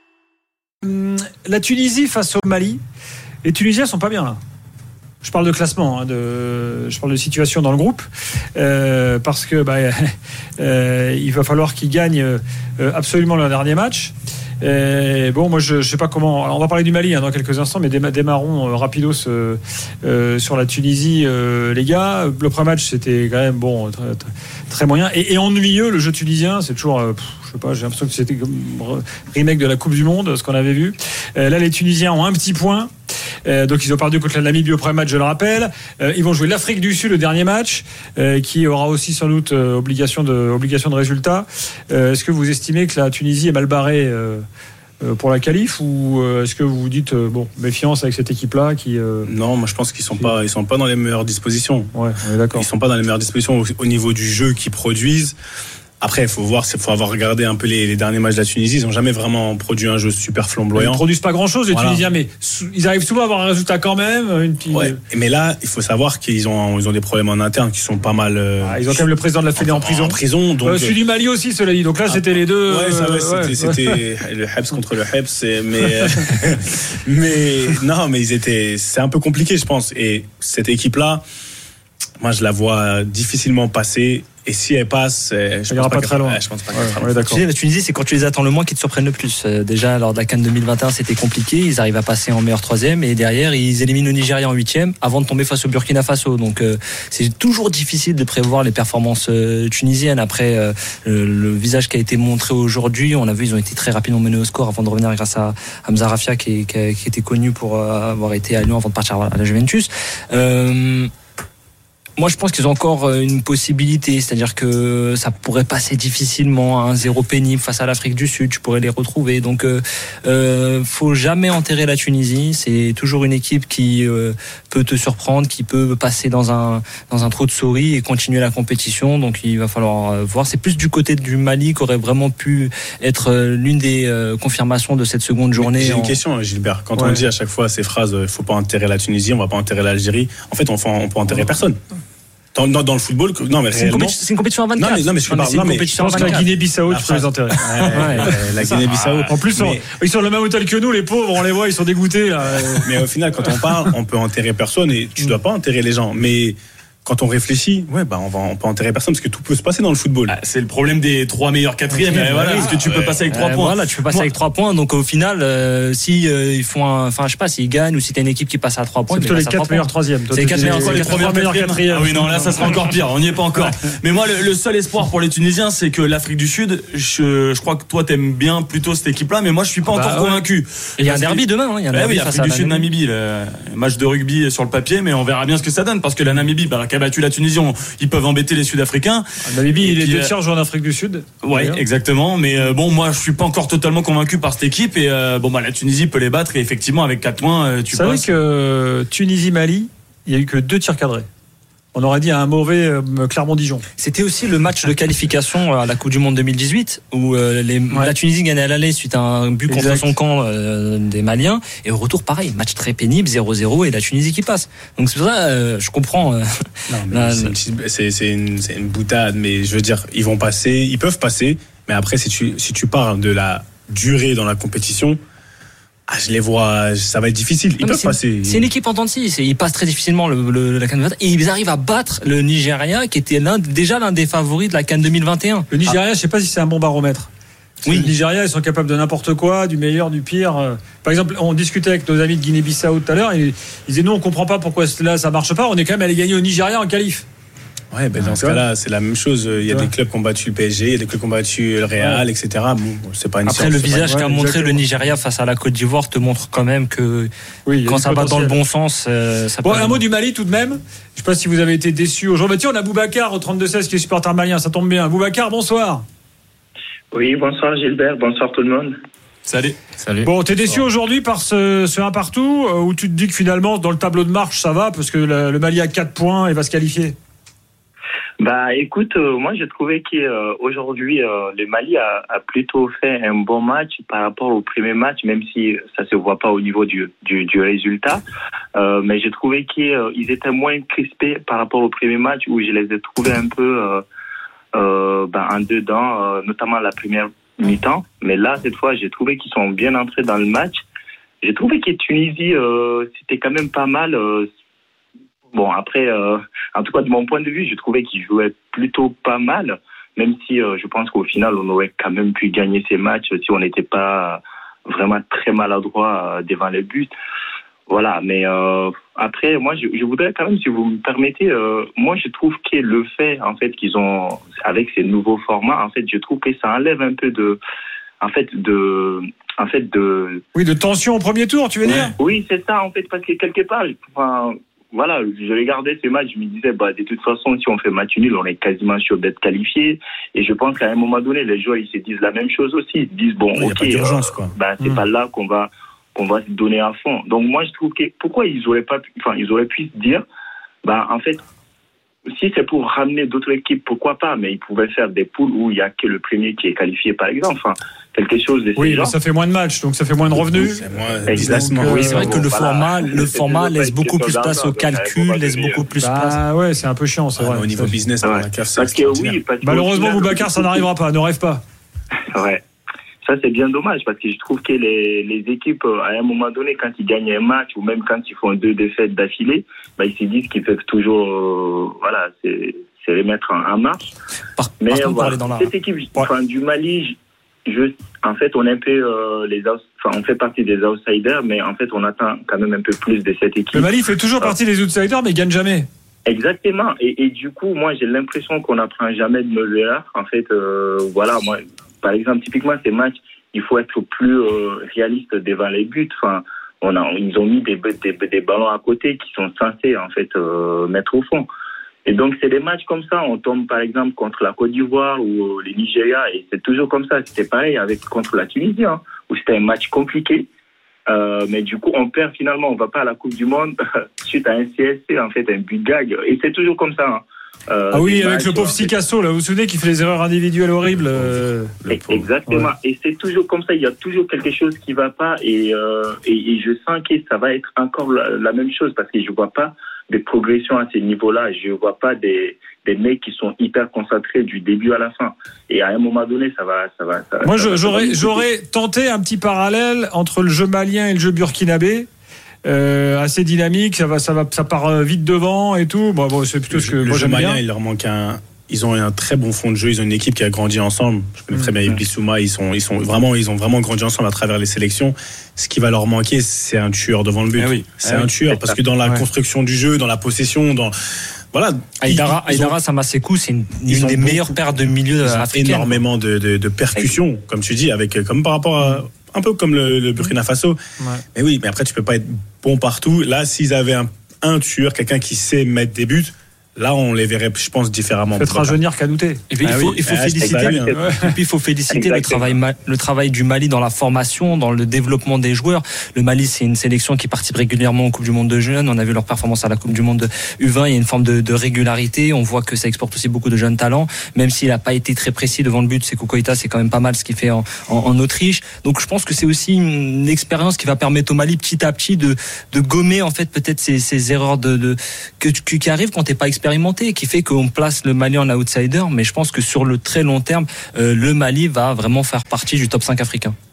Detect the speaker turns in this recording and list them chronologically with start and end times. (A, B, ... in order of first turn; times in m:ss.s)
0:00.8-0:02.8 A
0:03.4-0:04.4 A
0:05.2-0:32.9 A
0:33.4-0:44.4 A
0:45.0-0:49.3 A
0:49.3-0:51.9 B
0:51.9-0:52.7 A
0:52.6-0:55.4 B
0:56.0-1:01.0 B
1:00.8-1:05.0 A
1:01.7-1:02.0 B
1:04.7-1:11.0 B
1:08.6-1:14.0 A
1:12.1-1:21.2 B
1:22.2-1:27.2 B
1:25.7-1:27.4 A
1:27.2-1:51.1 C
1:52.2-2:16.2 C
2:15.6-2:21.8 B
2:22.6-2:24.2 B
2:23.7-2:26.5 C
2:24.8-2:29.8 B
2:26.0-2:28.4 A
2:27.9-2:28.3 C
2:28.9-2:29.3 D
2:29.3-2:33.0 A
2:32.9-2:40.3 B
2:40.3-2:44.3 D
2:42.0-2:42.7 C
2:42.1-2:42.7 A
2:43.3-2:51.3 C
2:49.1-2:52.8 A
2:50.6-3:10.3 D
2:59.9-3:00.4 A
3:01.0-3:02.9 C
3:09.4-3:11.8 A
3:11.4-3:18.3 D
3:17.9-3:21.3 A
3:21.9-3:23.8 A
3:24.0-3:36.5 C
3:29.7-3:30.1 A
3:37.1-3:45.2 B
3:37.1-3:37.6 C
3:46.1-3:48.7 B
3:47.8-3:55.7 C
3:55.7-3:57.3 A
3:57.9-4:07.3 A
4:07.9-4:14.2 B
4:13.5-4:17.3 C
4:14.1-4:14.8 A
4:17.7-4:18.6 A
4:17.8-4:20.0 C
4:19.6-4:26.0 A
4:27.1-4:28.9 E
4:29.5-4:30.8 D
4:30.2-4:37.2 A
4:38.4-4:48.2 E
4:48.8-4:54.0 E
4:54.8-5:00.8 E
5:01.4-5:04.5 E
5:05.5-5:17.1 E
5:17.9-5:27.6 E
5:28.2-5:30.4 E
5:30.6-5:32.1 A
5:31.9-5:50.2 E
5:43.6-5:44.6 B
5:50.8-5:51.4 E
5:52.4-5:59.2 E
5:58.8-6:02.2 A
6:00.4-6:02.4 B
6:01.3-6:05.8 E
6:01.9-6:06.4 C
6:06.0-6:07.9 A
6:07.4-6:09.4 B
6:08.2-6:10.9 E
6:09.6-6:11.6 A
6:12.3-6:12.6 E
6:13.2-6:24.1 E
6:24.6-6:25.7 C
6:24.8-6:34.5 E
6:33.7-6:35.9 A
6:36.3-6:51.5 E
6:52.1-7:00.5 E
7:01.1-7:09.0 E
7:07.9-7:11.7 A
7:11.2-7:12.3 B
7:11.9-7:28.4 E
7:27.4-7:32.1 A
7:32.6-7:37.6 A
7:36.7-7:51.0 B
7:47.6-7:48.3 D
7:48.4-7:48.8 E
7:51.5-7:52.8 B
7:52.0-7:56.0 C
7:53.9-8:00.8 B
8:01.0-8:01.2 A
8:01.4-8:08.8 B
8:08.4-8:09.9 A
8:09.5-8:43.5 C
8:10.0-8:10.9 B
8:10.4-8:11.1 E
8:11.9-8:12.6 E